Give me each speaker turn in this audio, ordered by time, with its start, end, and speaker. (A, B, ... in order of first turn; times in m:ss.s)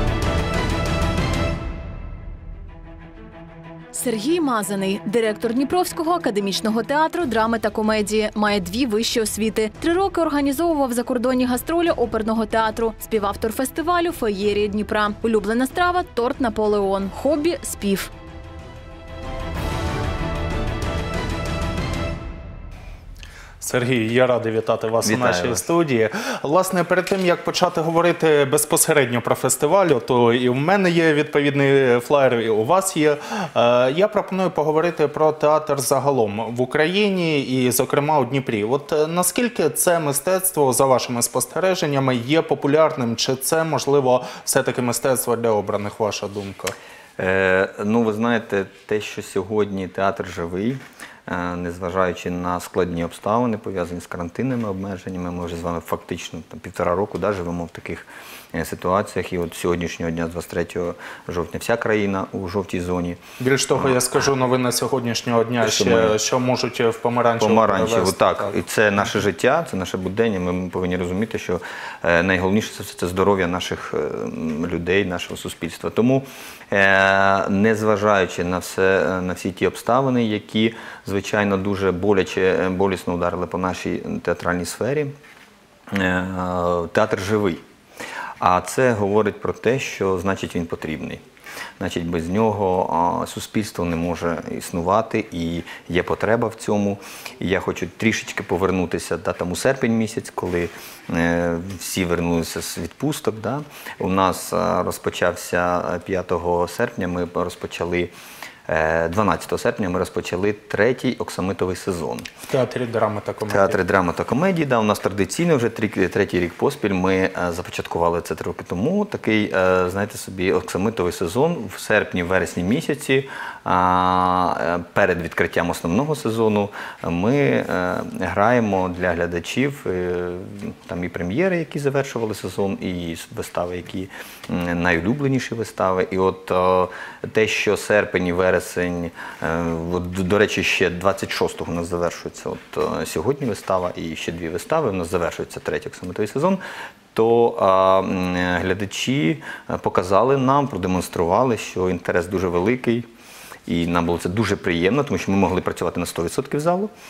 0:03.9-0:18.1 A
0:23.6-0:46.7 B
0:25.0-0:25.6 C
0:47.2-1:03.2 C
1:03.4-1:08.5 B
1:05.6-1:06.2 C
1:07.4-1:25.1 C
1:25.9-1:27.6 C
1:28.4-1:31.2 C
1:31.8-1:48.1 C
1:48.7-1:52.3 C
1:52.5-1:53.8 B
1:53.5-2:26.6 C
2:27.1-2:33.1 C
2:33.7-2:36.9 C